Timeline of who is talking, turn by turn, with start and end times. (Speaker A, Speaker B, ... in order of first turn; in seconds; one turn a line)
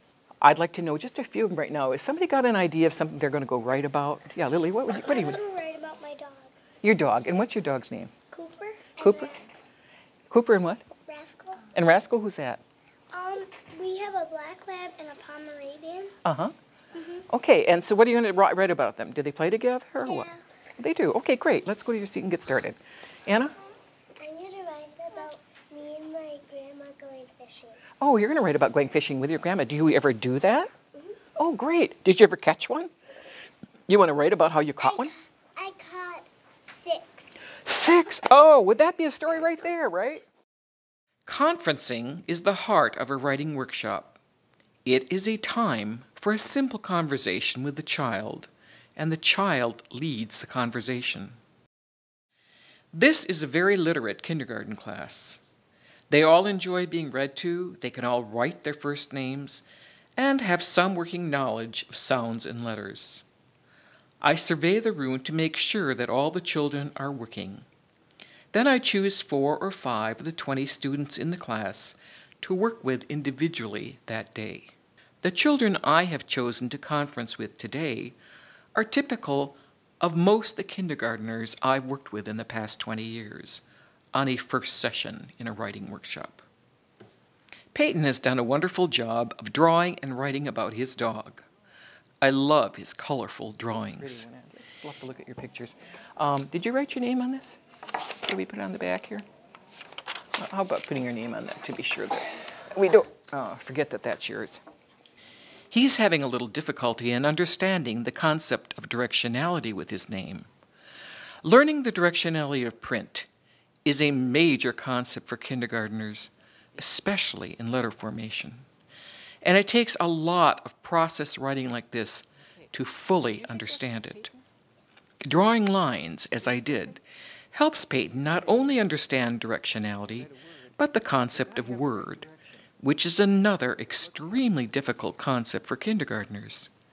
Speaker A: 0.4-5.4
Speaker B: 4.9-6.5
Speaker A: 6.8-8.1
Speaker B: 8.3-9.5
Speaker A: 9.0-9.3
Speaker A: 10.3-10.8
Speaker B: 11.1-11.7
Speaker A: 11.7-12.6
Speaker B: 13.1-16.1
Speaker A: 16.2-16.5
Speaker B: 16.9-17.2
Speaker A: 17.3-20.3
Speaker B: 20.0-20.4
Speaker A: 20.8-23.5
Speaker B: 24.2-27.8
Speaker A: 28.0-30.7
Speaker A: 31.4-32.9
Speaker A: 33.9-35.1
Speaker B: 34.8-37.5
Speaker A: 37.6-40.2
Speaker A: 41.2-44.2
Speaker A: 44.9-51.4
Speaker A: 52.9-55.4
Speaker A: 56.1-59.6
Speaker A: 60.2-63.2
Speaker A: 64.2-67.6
Speaker A: 68.5-78.1
Speaker A: 78.7-83.6
Speaker A: 84.1-86.4
Speaker A: 87.7-91.4
Speaker A: 92.2-97.6
Speaker A: 98.2-99.2
Speaker A: 100.4-104.6
Speaker A: 105.7-110.5
Speaker A: 111.4-113.3
Speaker A: 113.8-118.6
Speaker A: 119.4-124.3
Speaker A: 125.2-127.0
Speaker A: 127.5-136.7